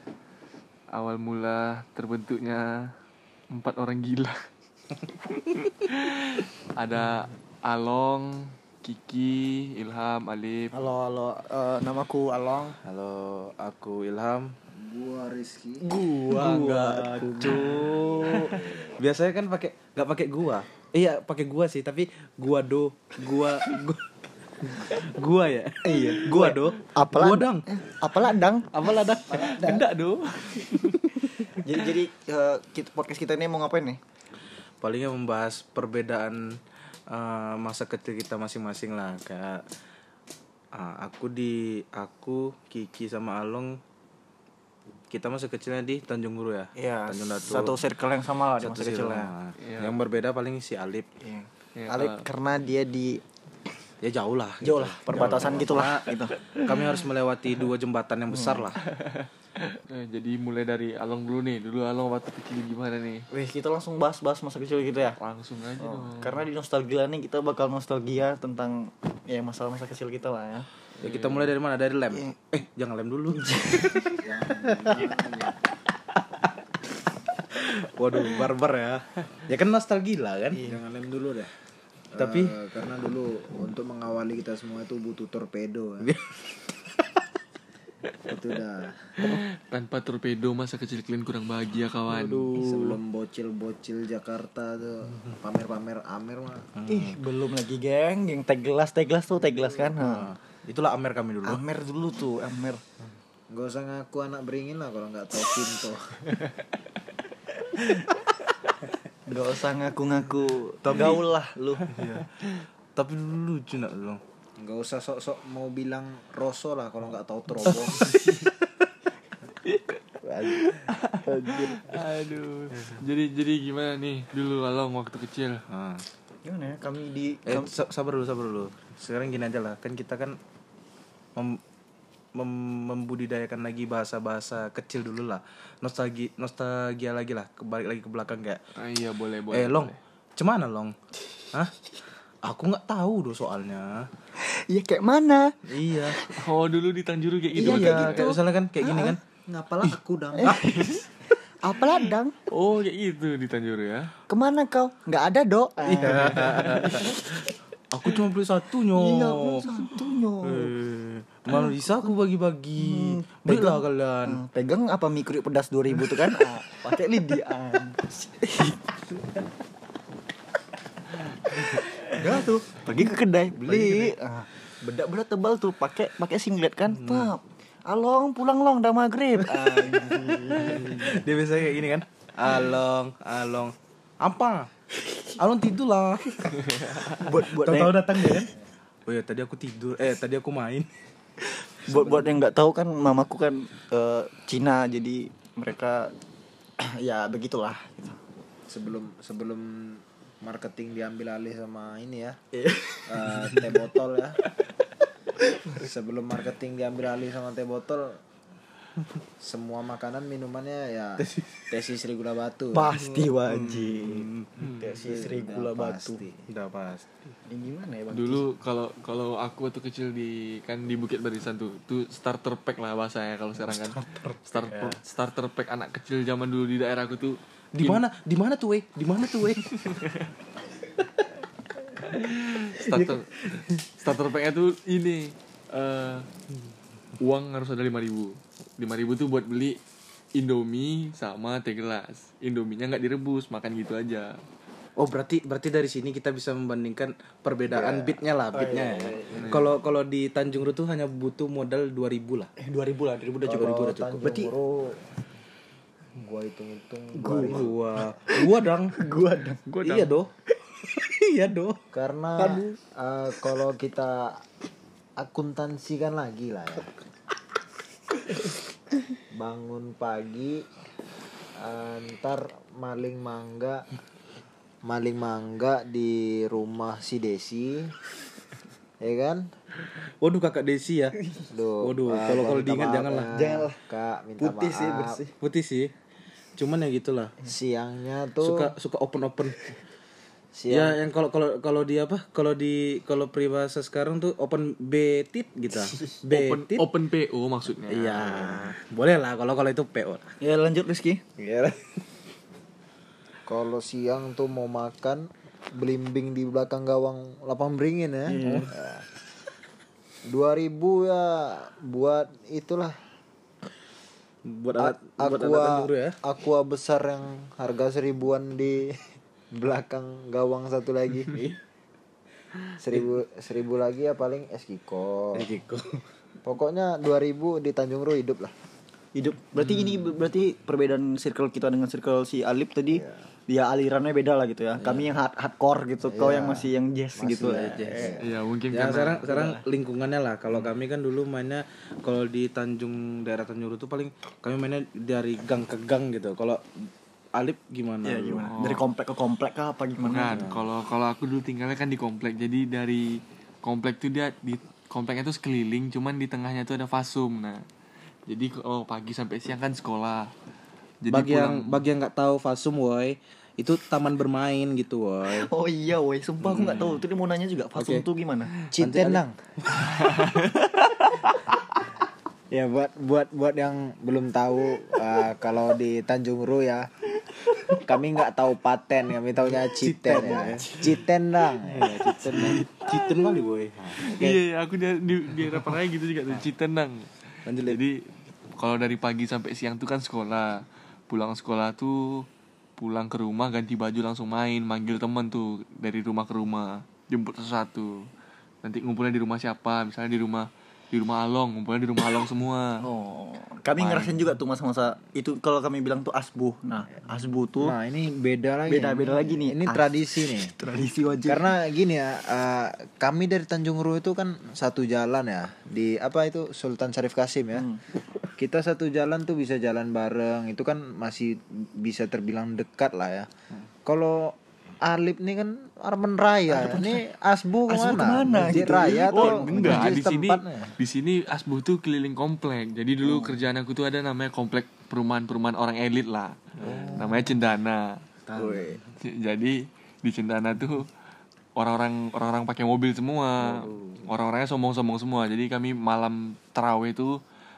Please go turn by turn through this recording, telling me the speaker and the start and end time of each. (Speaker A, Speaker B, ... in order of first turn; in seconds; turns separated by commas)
Speaker A: 0.9-2.9, Speaker A: 3.5-4.4, Speaker A: 5.3-10.7, Speaker B: 10.7-12.8, Speaker C: 12.8-14.5, Speaker D: 14.7-15.8, Speaker C: 15.9-27.7, Speaker B: 15.9-18.8, Speaker D: 17.4-18.9, Speaker B: 25.8-29.1, Speaker C: 28.7-30.0, Speaker A: 29.3-31.0, Speaker D: 29.4-29.8, Speaker C: 30.7-31.5, Speaker B: 31.5-34.0, Speaker C: 34.8-36.6, Speaker C: 37.1-39.6, Speaker C: 40.7-43.8, Speaker C: 45.1-47.8, Speaker B: 46.8-49.3, Speaker C: 48.5-51.1, Speaker A: 49.6-50.0, Speaker B: 51.2-53.2, Speaker A: 51.8-52.2, Speaker C: 54.0-58.8, Speaker B: 54.6-56.3, Speaker B: 58.3-58.7, Speaker A: 59.7-63.2, Speaker B: 63.3-65.2, Speaker A: 65.2-66.5, Speaker B: 65.8-70.7, Speaker C: 71.0-74.2, Speaker A: 71.0-71.5, Speaker B: 73.4-74.2, Speaker D: 74.2-75.5, Speaker B: 74.8-75.5, Speaker C: 77.5-80.7, Speaker D: 80.5-81.5, Speaker C: 82.1-82.5, Speaker D: 82.2-86.1, Speaker C: 86.0-87.0, Speaker D: 88.3-89.3, Speaker A: 89.2-92.5, Speaker C: 92.1-93.0, Speaker D: 92.5-96.7, Speaker C: 96.8-97.2, Speaker B: 96.9-100.3, Speaker C: 99.9-101.6, Speaker B: 101.5-102.8, Speaker D: 103.5-106.2, Speaker B: 109.3-112.0, Speaker C: 110.8-111.2, Speaker C: 111.9-112.2, Speaker C: 113.0-114.2, Speaker D: 114.6-118.2, Speaker C: 117.6-118.4, Speaker A: 118.0-118.5, Speaker A: 119.6-125.6, Speaker D: 120.2-120.6, Speaker C: 125.7-126.0, Speaker B: 126.5-127.8, Speaker C: 127.5-130.4, Speaker C: 131.3-131.6, Speaker C: 132.3-138.6, Speaker A: 138.8-140.0, Speaker C: 139.5-140.9, Speaker C: 142.4-144.1, Speaker B: 144.3-146.5, Speaker C: 145.7-146.2, Speaker A: 146.3-148.3, Speaker B: 147.5-149.2, Speaker C: 147.6-149.2, Speaker D: 149.5-150.6, Speaker B: 150.3-152.3, Speaker A: 152.5-154.1, Speaker B: 154.3-157.5, Speaker C: 155.8-157.2, Speaker C: 157.9-159.7, Speaker B: 158.9-160.7, Speaker C: 160.4-164.4, Speaker B: 161.5-162.1, Speaker B: 162.8-169.0, Speaker B: 171.4-181.2, Speaker C: 173.6-174.1, Speaker C: 176.9-177.3, Speaker C: 179.4-184.7, Speaker C: 185.3-188.5, Speaker A: 186.6-187.1, Speaker B: 186.9-188.5, Speaker C: 189.1-190.9, Speaker B: 191.4-196.1, Speaker D: 191.9-192.2, Speaker B: 196.8-198.2, Speaker D: 198.7-202.4, Speaker B: 202.5-203.5, Speaker D: 203.1-204.4, Speaker D: 205.7-208.2, Speaker D: 209.4-213.0, Speaker C: 211.2-211.6, Speaker B: 212.7-214.3, Speaker C: 212.9-215.3, Speaker A: 214.6-214.9, Speaker B: 214.8-216.2, Speaker D: 215.0-216.4, Speaker C: 216.5-217.3, Speaker B: 217.5-218.4, Speaker A: 218.1-228.0, Speaker C: 223.6-225.0, Speaker C: 227.7-229.8, Speaker A: 229.7-230.2, Speaker A: 232.1-236.3, Speaker A: 237.2-239.8, Speaker A: 240.3-244.4, Speaker C: 245.0-252.5, Speaker D: 247.7-248.2, Speaker B: 248.5-249.6, Speaker B: 252.6-254.5, Speaker D: 253.4-255.0, Speaker C: 253.5-254.3, Speaker D: 256.2-258.2, Speaker B: 257.1-257.7, Speaker C: 257.3-258.9, Speaker B: 258.3-259.6, Speaker A: 259.7-260.1, Speaker C: 259.8-260.3, Speaker C: 260.8-261.8, Speaker D: 261.9-264.4, Speaker C: 262.4-262.6, Speaker D: 265.2-266.9, Speaker D: 269.3-270.7, Speaker D: 271.6-273.9, Speaker D: 274.8-277.9, Speaker D: 279.0-279.5, Speaker C: 280.2-281.2, Speaker D: 281.5-285.2, Speaker C: 281.8-283.3, Speaker B: 283.3-283.8, Speaker B: 284.4-285.3, Speaker C: 285.4-285.9, Speaker C: 286.6-287.4, Speaker D: 287.4-288.7, Speaker C: 288.4-289.8, Speaker D: 290.5-291.0, Speaker C: 290.7-296.9, Speaker B: 295.8-296.1, Speaker A: 296.3-298.6, Speaker C: 297.9-300.3, Speaker B: 300.4-301.2, Speaker D: 301.4-302.0, Speaker D: 303.5-309.0, Speaker B: 308.3-308.7, Speaker D: 310.2-313.0, Speaker C: 314.5-316.2, Speaker D: 314.8-321.4, Speaker C: 321.3-321.6, Speaker D: 322.8-325.5, Speaker C: 325.3-326.0, Speaker D: 326.4-328.5, Speaker B: 329.1-338.2, Speaker D: 332.9-333.2, Speaker C: 334.8-335.1, Speaker D: 336.0-338.2, Speaker C: 337.4-338.1, Speaker A: 338.2-339.2, Speaker C: 338.7-348.5, Speaker B: 339.2-339.6, Speaker B: 348.0-350.4, Speaker A: 348.5-348.8, Speaker A: 350.1-357.6, Speaker C: 350.4-350.6, Speaker A: 358.3-360.3, Speaker A: 361.0-361.8, Speaker C: 361.1-365.5, Speaker B: 365.2-368.5, Speaker C: 366.4-366.9, Speaker A: 366.6-367.0, Speaker C: 367.8-368.1, Speaker D: 368.7-369.4, Speaker C: 368.8-369.7, Speaker A: 369.8-370.7, Speaker D: 372.5-376.9, Speaker D: 377.7-382.6, Speaker C: 379.4-381.0, Speaker C: 381.6-384.4, Speaker A: 382.4-382.6, Speaker A: 384.0-387.1, Speaker C: 387.5-387.8, Speaker A: 387.6-388.1, Speaker A: 388.6-392.2, Speaker A: 392.8-398.1, Speaker A: 398.6-402.8, Speaker B: 402.8-407.8, Speaker A: 403.8-404.1, Speaker D: 407.6-410.5, Speaker B: 408.7-411.5, Speaker D: 411.2-417.7, Speaker B: 417.5-417.8, Speaker D: 418.4-423.3, Speaker D: 423.9-430.8, Speaker B: 426.5-427.0, Speaker B: 427.7-429.9, Speaker A: 429.1-438.0, Speaker C: 436.6-437.0, Speaker D: 436.6-437.1, Speaker C: 438.3-438.8, Speaker B: 438.3-438.8, Speaker A: 439.0-440.9, Speaker A: 441.6-447.2, Speaker C: 443.4-444.0